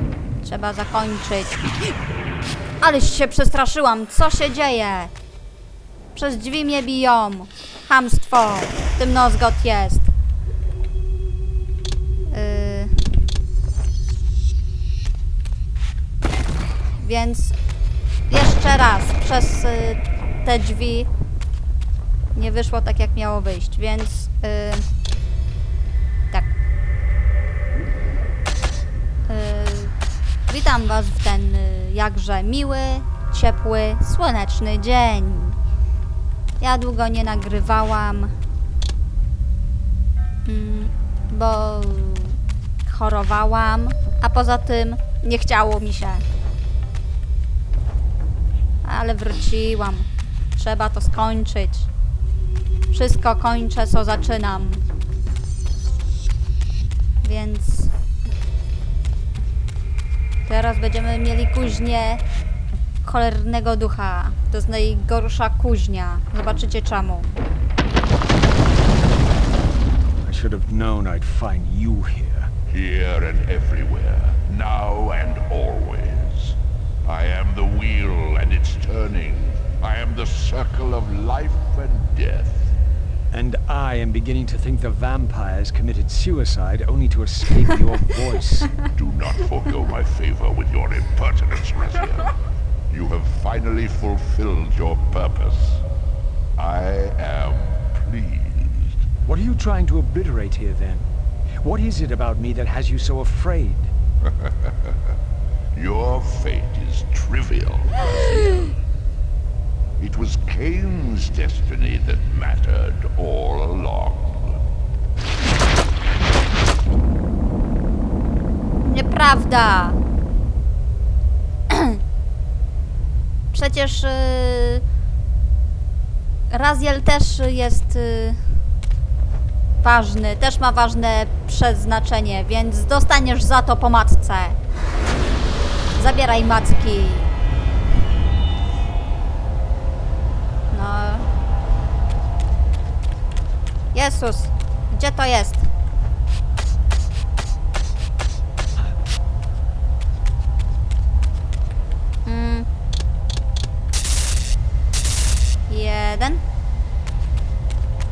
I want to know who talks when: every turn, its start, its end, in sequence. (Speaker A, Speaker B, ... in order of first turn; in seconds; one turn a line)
Speaker A: 0.4-1.6
Speaker A: 2.8-5.1
Speaker A: 6.1-10.1
Speaker A: 12.3-13.1
Speaker A: 17.0-17.6
Speaker A: 18.3-21.1
Speaker A: 22.3-24.9
Speaker A: 29.3-29.9
Speaker A: 30.5-35.6
Speaker A: 36.6-38.3
Speaker A: 40.5-46.2
Speaker A: 48.8-51.9
Speaker A: 52.9-54.8
Speaker A: 57.2-57.9
Speaker A: 60.5-62.2
Speaker A: 63.0-67.3
Speaker B: 70.2-72.5
Speaker C: 72.7-82.7
Speaker B: 83.3-88.8
Speaker C: 88.9-92.3
Speaker C: 92.9-95.8
Speaker C: 96.6-99.0
Speaker B: 99.2-103.9
Speaker C: 104.4-104.9
Speaker C: 105.7-108.7
Speaker C: 110.0-114.6
Speaker A: 118.8-120.0
Speaker A: 121.7-122.0
Speaker A: 123.5-124.8
Speaker A: 126.5-128.6
Speaker A: 129.8-134.6
Speaker A: 135.9-137.3
Speaker A: 140.7-141.2
Speaker A: 143.9-145.6
Speaker A: 152.2-152.7
Speaker A: 155.7-156.4